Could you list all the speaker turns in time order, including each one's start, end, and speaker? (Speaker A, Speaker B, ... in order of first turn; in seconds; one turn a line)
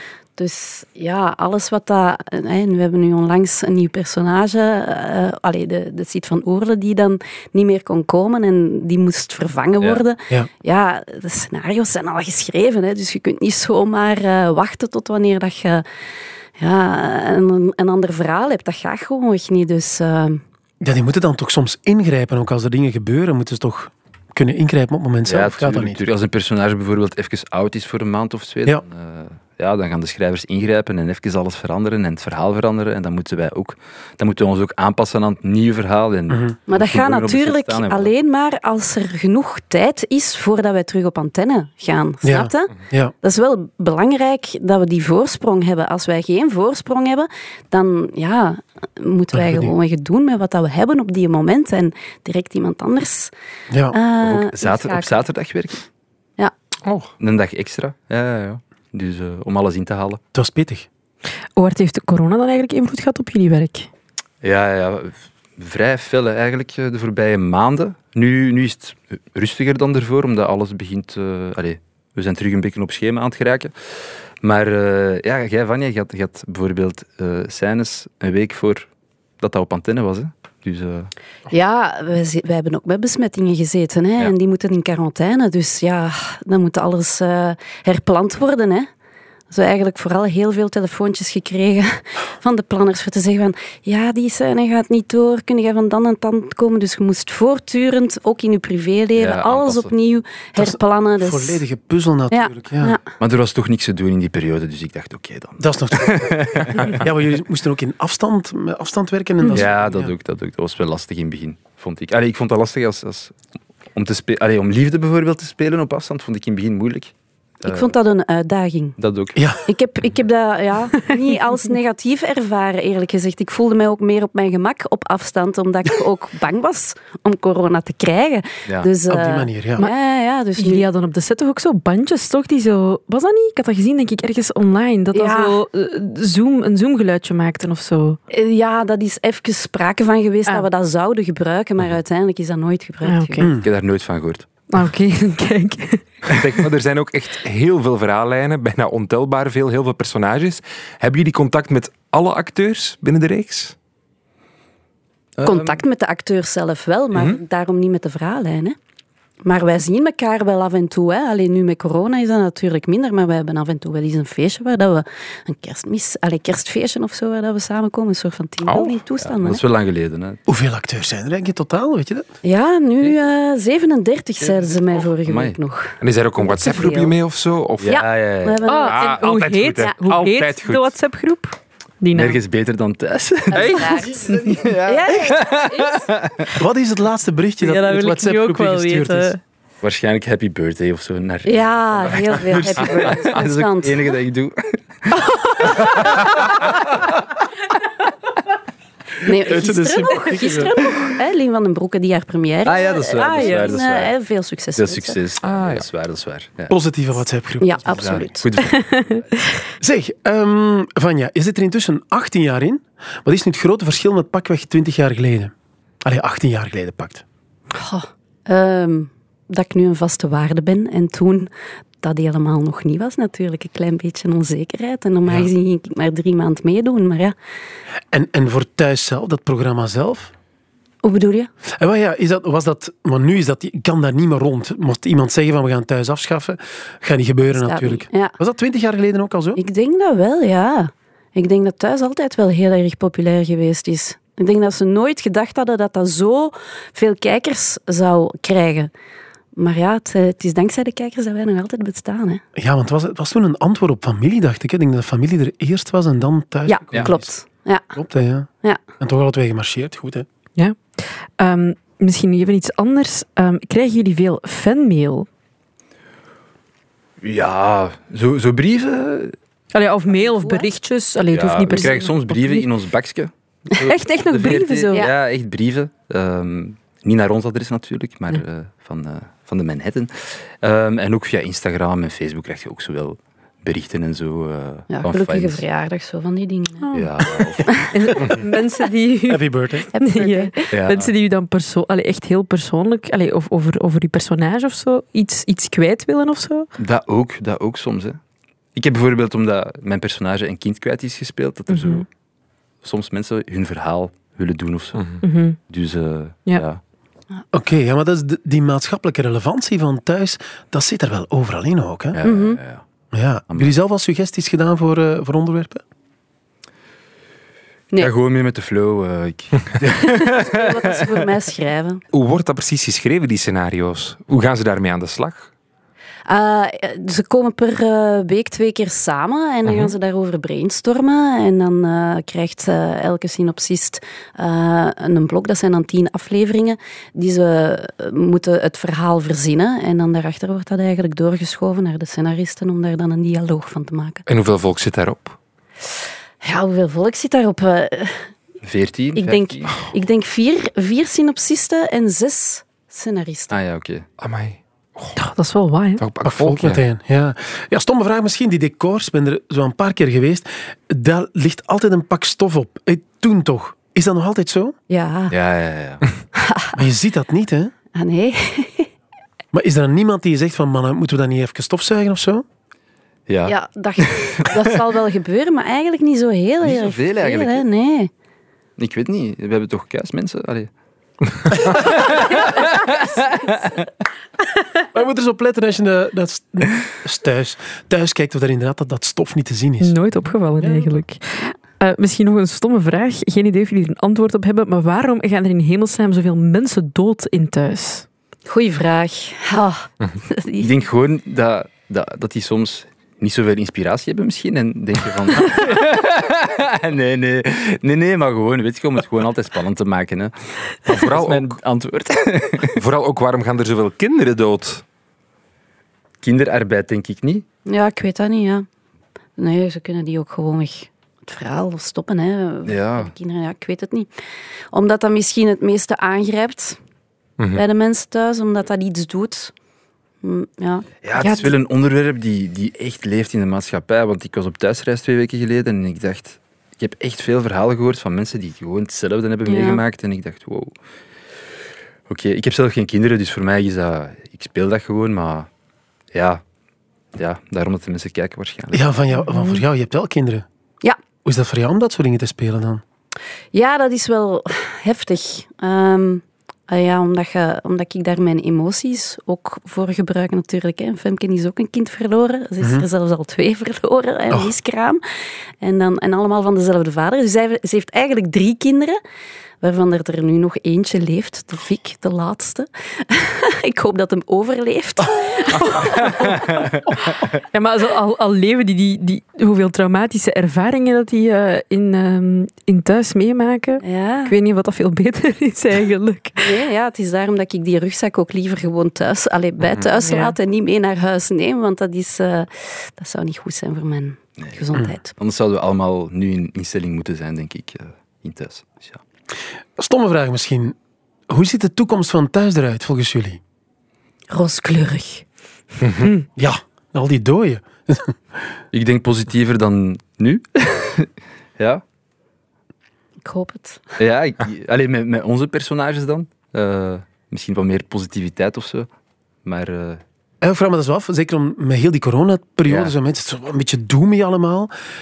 Speaker A: 0.4-15.8
Speaker A: 16.6-20.4
Speaker B: 20.8-26.1
Speaker C: 25.3-38.1
Speaker B: 36.3-36.6
Speaker A: 36.7-53.3
Speaker B: 42.2-43.1
Speaker B: 49.3-49.7
Speaker B: 53.7-54.0
Speaker A: 53.9-55.3
Speaker C: 54.2-55.9
Speaker D: 56.9-57.1
Speaker C: 57.2-60.2
Speaker B: 60.3-60.9
Speaker E: 61.6-63.9
Speaker C: 64.4-73.8
Speaker C: 74.4-78.9
Speaker C: 79.4-81.1
Speaker A: 81.5-88.9
Speaker A: 89.5-101.6
Speaker C: 99.2-99.9
Speaker B: 100.6-103.0
Speaker A: 102.3-103.0
Speaker C: 103.2-107.1
Speaker B: 105.6-110.1
Speaker C: 109.5-113.3
Speaker C: 113.9-117.1
Speaker A: 117.6-119.0
Speaker C: 117.6-117.9
Speaker C: 119.0-119.5
Speaker B: 119.3-119.6
Speaker A: 119.7-130.8
Speaker B: 129.1-129.9
Speaker E: 130.6-138.2
Speaker A: 135.1-135.6
Speaker A: 138.3-143.5
Speaker E: 143.1-143.5
Speaker B: 143.4-143.7
Speaker C: 143.6-144.5
Speaker E: 144.7-146.0
Speaker D: 146.3-153.8
Speaker C: 155.4-155.8
Speaker A: 155.4-158.8
Speaker A: 159.4-169.6
Speaker D: 168.7-169.0
Speaker C: 169.2-170.4
Speaker B: 170.5-172.3
Speaker A: 172.4-177.2
Speaker C: 175.2-175.6
Speaker D: 176.0-178.0
Speaker C: 177.8-178.7
Speaker A: 177.8-180.0
Speaker E: 178.7-182.4
Speaker D: 178.8-180.9
Speaker C: 182.1-186.6
Speaker A: 183.5-186.0
Speaker D: 183.6-184.0
Speaker B: 186.6-189.3
Speaker E: 187.6-189.4
Speaker C: 189.8-196.1
Speaker A: 191.4-194.1
Speaker D: 193.0-193.4
Speaker A: 199.2-205.2
Speaker B: 199.2-200.9
Speaker C: 202.6-204.1
Speaker C: 204.8-206.7
Speaker D: 205.4-205.9
Speaker B: 206.7-208.2
Speaker A: 207.6-208.5
Speaker C: 207.9-209.4
Speaker E: 208.8-209.2
Speaker B: 209.8-217.2
Speaker A: 217.7-221.5
Speaker A: 222.0-227.3
Speaker B: 228.1-230.3
Speaker A: 231.0-231.5
Speaker B: 231.6-239.6
Speaker A: 237.5-238.4
Speaker A: 239.6-248.9
Speaker A: 249.6-252.4
Speaker B: 252.6-257.3
Speaker A: 256.7-257.9
Speaker B: 257.9-260.3
Speaker E: 260.6-265.3
Speaker C: 267.2-269.4
Speaker E: 269.7-272.7
Speaker A: 270.1-270.7
Speaker C: 271.3-285.6
Speaker E: 273.7-275.1
Speaker A: 284.9-286.9
Speaker E: 286.8-296.7
Speaker C: 286.9-287.8
Speaker A: 287.7-288.6
Speaker B: 289.3-289.9
Speaker A: 289.9-290.5
Speaker C: 290.7-291.1
Speaker C: 296.8-298.2
Speaker C: 298.8-302.1
Speaker E: 301.7-302.1
Speaker C: 302.8-305.2
Speaker D: 305.0-305.2
Speaker E: 305.2-305.6
Speaker C: 305.7-306.8
Speaker B: 307.5-312.2
Speaker C: 312.2-312.8
Speaker A: 312.2-312.6
Speaker B: 313.1-315.8
Speaker C: 318.0-320.8
Speaker A: 320.0-322.0
Speaker D: 322.1-325.5
Speaker A: 326.3-344.2
Speaker D: 329.7-329.9
Speaker D: 344.3-345.4
Speaker A: 346.4-348.3
Speaker C: 348.6-349.8
Speaker A: 349.1-353.5
Speaker C: 353.5-354.1
Speaker D: 354.2-355.2
Speaker E: 355.2-356.0
Speaker D: 356.0-356.8
Speaker B: 356.2-364.8
Speaker A: 364.9-365.3
Speaker C: 365.3-366.0
Speaker A: 366.4-366.8
Speaker B: 366.8-367.7
Speaker A: 367.9-368.9
Speaker B: 369.5-372.4
Speaker C: 373.3-374.6
Speaker A: 373.5-378.1
Speaker C: 376.6-377.6
Speaker C: 378.8-380.7
Speaker C: 381.5-383.8
Speaker B: 384.9-390.0
Speaker E: 389.8-398.1
Speaker B: 390.6-391.0
Speaker A: 398.5-400.7
Speaker C: 400.6-412.8
Speaker D: 410.9-411.6
Speaker D: 412.7-414.8
Speaker C: 416.2-417.5
Speaker A: 417.7-418.7
Speaker A: 419.4-424.1
Speaker C: 422.6-423.1
Speaker A: 424.7-426.8
Speaker A: 427.5-429.5
Speaker A: 430.2-431.5
Speaker C: 431.0-440.8
Speaker A: 439.5-439.8
Speaker C: 442.1-445.5
Speaker C: 446.1-446.4
Speaker C: 447.1-448.9
Speaker B: 448.7-450.5
Speaker E: 449.3-449.6
Speaker B: 451.2-452.8
Speaker A: 453.5-465.0
Speaker B: 462.6-462.9
Speaker A: 465.6-469.0
Speaker A: 469.6-476.5
Speaker C: 476.1-477.3
Speaker E: 477.5-486.5
Speaker A: 483.8-484.4
Speaker A: 486.4-495.1
Speaker E: 490.0-490.4
Speaker C: 494.4-499.0
Speaker B: 499.8-500.8
Speaker B: 501.3-503.4
Speaker A: 504.3-505.3
Speaker D: 505.8-506.1
Speaker B: 506.4-508.2
Speaker C: 508.7-511.8
Speaker A: 513.2-513.8
Speaker C: 514.0-518.9
Speaker C: 519.5-520.0
Speaker B: 520.4-524.7
Speaker C: 522.7-522.9